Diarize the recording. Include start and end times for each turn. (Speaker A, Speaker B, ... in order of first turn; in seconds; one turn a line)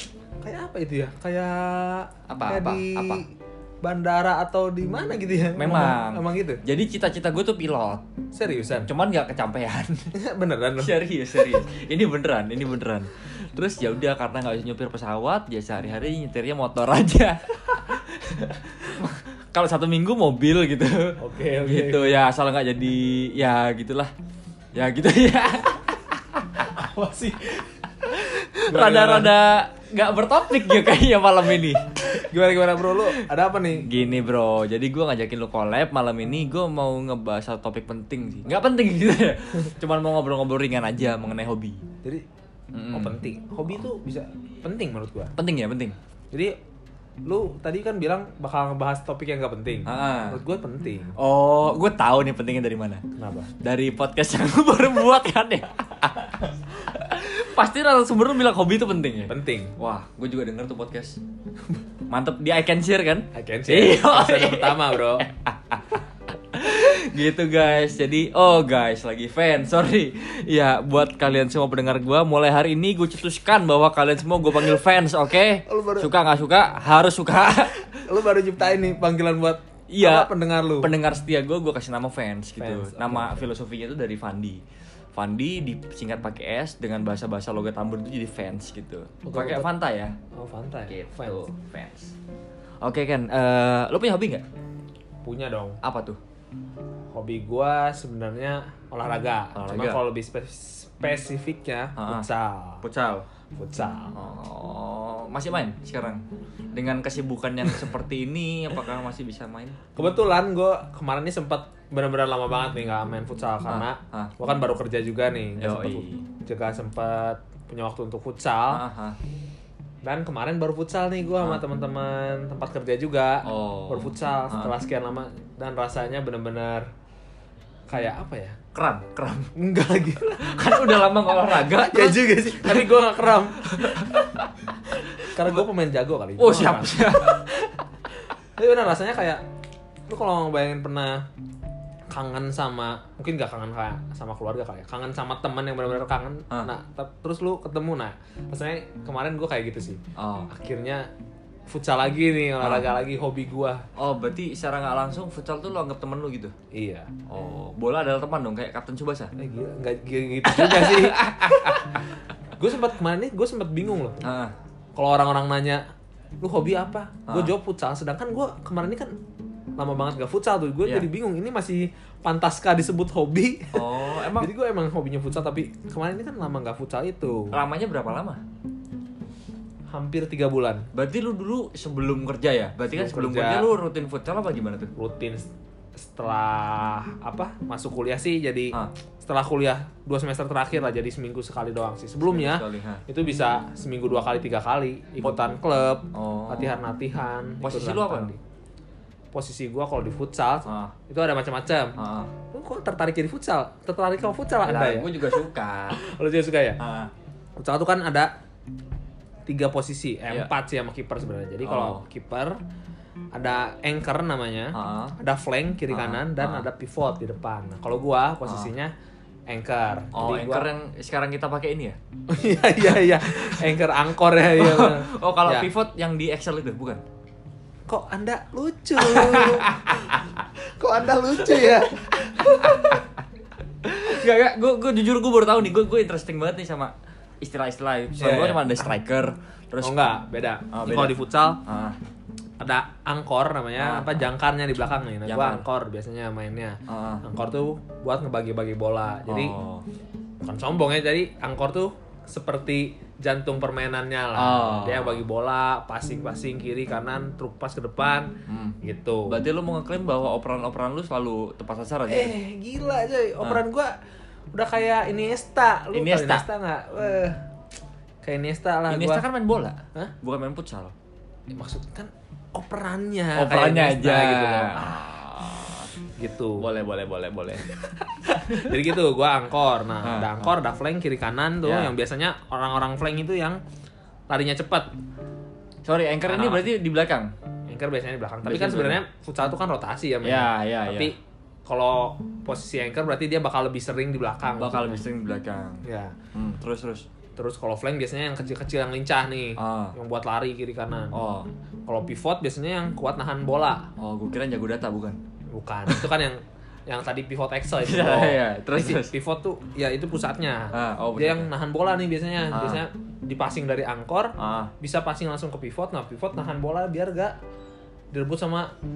Speaker A: 0.4-6.6
Speaker B: 2.3-3.2
Speaker B: 5.5-8.0
Speaker A: 8.3-8.9
Speaker B: 8.8-10.1
Speaker A: 10.1-11.0
Speaker B: 10.8-24.1
Speaker A: 21.2-22.2
Speaker B: 24.7-26.7
Speaker A: 26.6-27.6
Speaker B: 28.0-32.2
Speaker A: 28.7-29.3
Speaker A: 32.0-33.9
Speaker B: 33.8-41.8
Speaker B: 42.7-43.1
Speaker A: 42.9-45.3
Speaker B: 45.4-46.0
Speaker A: 47.2-51.1
Speaker B: 49.9-50.4
Speaker B: 51.2-53.0
Speaker A: 53.1-53.5
Speaker B: 53.6-61.2
Speaker A: 59.3-59.7
Speaker B: 62.1-66.0
Speaker A: 63.3-65.3
Speaker B: 66.5-77.8
Speaker A: 75.7-76.1
Speaker A: 77.9-80.9
Speaker B: 79.9-84.6
Speaker A: 82.6-83.5
Speaker B: 85.1-90.1
Speaker A: 89.2-89.7
Speaker A: 90.3-91.5
Speaker B: 90.9-92.2
Speaker B: 92.8-94.4
Speaker A: 95.2-95.8
Speaker B: 95.8-96.2
Speaker A: 97.1-102.8
Speaker B: 99.5-100.0
Speaker B: 102.0-102.3
Speaker B: 102.8-103.2
Speaker A: 103.5-104.2
Speaker B: 104.1-106.2
Speaker B: 106.7-109.8
Speaker A: 110.0-118.8
Speaker B: 113.6-114.3
Speaker B: 115.6-116.2
Speaker B: 118.7-119.2
Speaker A: 120.0-126.8
Speaker B: 123.4-124.7
Speaker A: 127.9-128.6
Speaker B: 128.7-129.5
Speaker A: 129.6-130.4
Speaker B: 130.2-134.5
Speaker A: 131.7-134.1
Speaker B: 135.2-135.6
Speaker A: 135.2-137.8
Speaker B: 136.4-137.5
Speaker A: 138.6-139.4
Speaker A: 140.1-141.2
Speaker A: 142.1-151.1
Speaker B: 150.2-150.5
Speaker A: 151.7-153.8
Speaker B: 152.6-152.9
Speaker B: 153.9-156.5
Speaker A: 156.7-157.1
Speaker B: 157.3-159.3
Speaker A: 159.3-162.0
Speaker B: 160.4-162.0
Speaker A: 162.6-164.2
Speaker B: 164.2-164.5
Speaker A: 164.9-165.8
Speaker A: 166.4-169.1
Speaker B: 167.3-167.5
Speaker A: 169.8-177.5
Speaker B: 173.7-174.5
Speaker B: 177.5-178.4
Speaker A: 179.9-180.9
Speaker B: 180.9-184.9
Speaker A: 182.9-183.7
Speaker A: 184.9-198.4
Speaker B: 192.2-193.0
Speaker B: 196.1-196.8
Speaker B: 197.6-198.3
Speaker A: 199.3-201.9
Speaker B: 200.7-200.9
Speaker B: 202.0-202.3
Speaker A: 202.5-205.4
Speaker B: 204.6-206.0
Speaker A: 205.9-206.8
Speaker B: 206.8-207.1
Speaker A: 207.6-208.3
Speaker A: 209.5-212.5
Speaker B: 211.6-212.0
Speaker A: 213.3-218.9
Speaker B: 214.7-215.1
Speaker B: 215.9-216.7
Speaker A: 219.5-220.7
Speaker B: 220.1-222.0
Speaker A: 222.3-225.7
Speaker B: 224.6-227.0
Speaker A: 227.9-233.0
Speaker B: 229.0-230.1
Speaker B: 232.3-233.0
Speaker B: 233.8-240.0
Speaker A: 238.2-238.6
Speaker A: 239.8-241.6
Speaker B: 240.7-241.9
Speaker A: 242.6-249.6
Speaker B: 243.8-244.2
Speaker B: 245.2-245.6
Speaker B: 246.9-247.2
Speaker B: 249.3-249.8
Speaker A: 250.4-259.4
Speaker B: 254.3-255.2
Speaker B: 258.5-258.8
Speaker B: 259.3-262.4
Speaker A: 262.1-263.9
Speaker A: 264.5-267.4
Speaker B: 265.9-266.4
Speaker A: 268.2-269.2
Speaker B: 268.9-270.9
Speaker A: 271.5-275.0
Speaker B: 273.4-275.9
Speaker A: 276.2-276.6
Speaker B: 276.6-277.7
Speaker A: 277.8-283.6
Speaker B: 278.5-278.7
Speaker B: 280.0-280.5
Speaker B: 281.6-281.9
Speaker A: 284.3-284.9
Speaker B: 285.8-287.3
Speaker A: 286.2-286.6
Speaker A: 287.7-295.0
Speaker B: 288.4-289.0
Speaker B: 290.2-291.1
Speaker B: 294.6-297.1
Speaker A: 295.8-296.1
Speaker A: 297.4-301.2
Speaker B: 299.6-299.9
Speaker B: 301.1-301.5
Speaker A: 301.9-303.9
Speaker B: 304.0-305.2
Speaker A: 305.5-317.4
Speaker B: 307.8-309.1
Speaker B: 310.7-311.5
Speaker B: 312.5-312.8
Speaker B: 314.4-314.7
Speaker A: 318.1-318.7